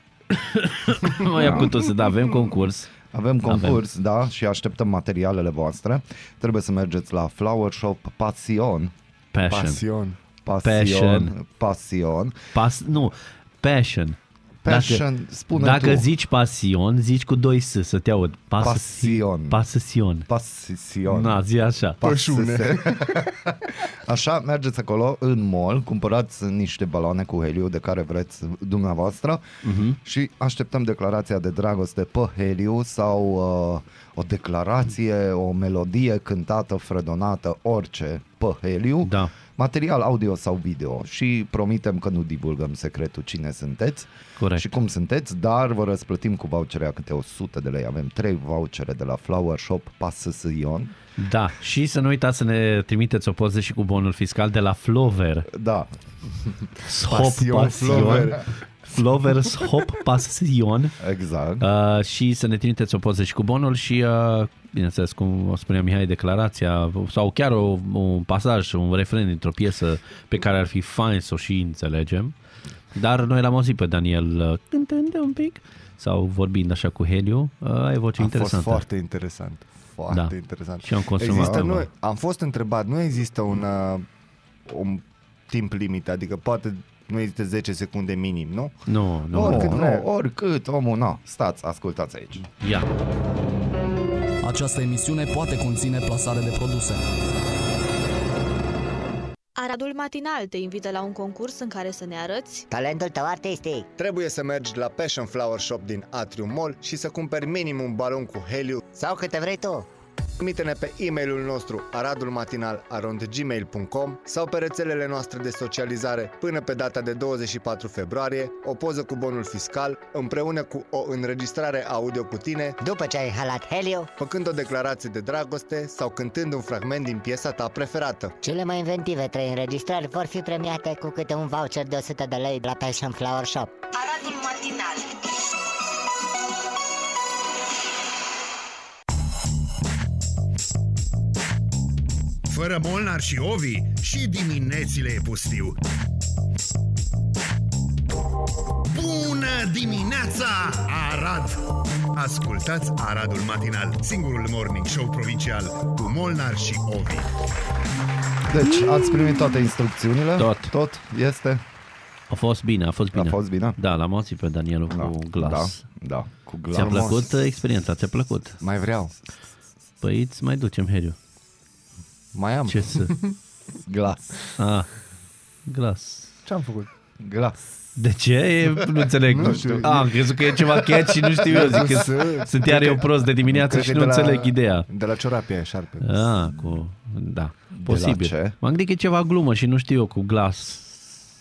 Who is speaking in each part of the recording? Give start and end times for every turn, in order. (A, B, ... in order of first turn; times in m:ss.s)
0:00.3-0:02.9 A
0:01.3-0:01.8 B
0:03.1-0:08.9 B
0:03.5-0:03.8 A
0:09.3-0:09.8 A
0:09.5-0:10.2 C
0:10.4-0:12.4 B
0:10.6-0:11.3 A
0:12.5-0:15.0 A
0:14.6-0:16.1 B
0:15.6-0:20.3 A
0:18.6-0:19.6 B
0:20.3-0:21.4 B
0:21.1-0:22.0 A
0:22.0-0:23.3 C
0:22.0-0:29.4 B
0:29.6-0:30.0 A
0:30.0-0:50.9 B
0:39.0-0:39.3 A
0:44.4-0:44.7 A
0:51.2-0:55.5 A
0:55.5-0:55.9 B
0:56.8-1:01.0 A
0:56.9-0:58.5 C
0:57.9-0:58.3 B
1:01.0-1:01.7 B
1:01.6-1:12.3 A
1:12.9-1:18.8 A
1:18.2-1:24.1 C
1:20.1-1:21.9 A
1:21.3-1:21.7 B
1:24.7-1:28.8 C
1:28.9-1:29.8 A
1:29.3-1:30.1 C
1:29.3-1:32.5 B
1:32.6-1:32.9 A
1:34.4-1:37.0 D
1:39.6-1:42.7 E
1:42.7-1:43.9 F
1:44.0-1:48.9 C
1:48.9-1:49.9 F
1:50.4-2:02.8 C
2:02.8-2:04.1 F
2:04.2-2:08.4 C
2:08.4-2:13.8 F
2:13.9-2:15.6 E
2:22.5-2:25.8 G
2:28.9-2:37.3 G
2:38.5-2:41.6 B
2:40.4-2:40.7 A
2:42.3-2:45.8 A
2:43.1-2:43.8 B
2:44.9-2:47.4 B
2:46.7-2:48.6 A
2:46.8-2:47.1 C
2:48.6-2:49.1 C
2:50.0-2:51.2 A
2:52.3-2:53.4 C
2:52.7-2:53.1 A
2:53.9-2:54.5 B
2:54.6-2:54.9 A
2:55.7-2:56.3 A
2:56.4-2:56.9 C
2:57.2-2:57.6 B
2:58.0-3:04.9 A
2:59.3-3:00.1 C
2:59.4-3:00.1 B
3:01.3-3:06.4 C
3:06.0-3:11.3 A
3:07.7-3:08.6 B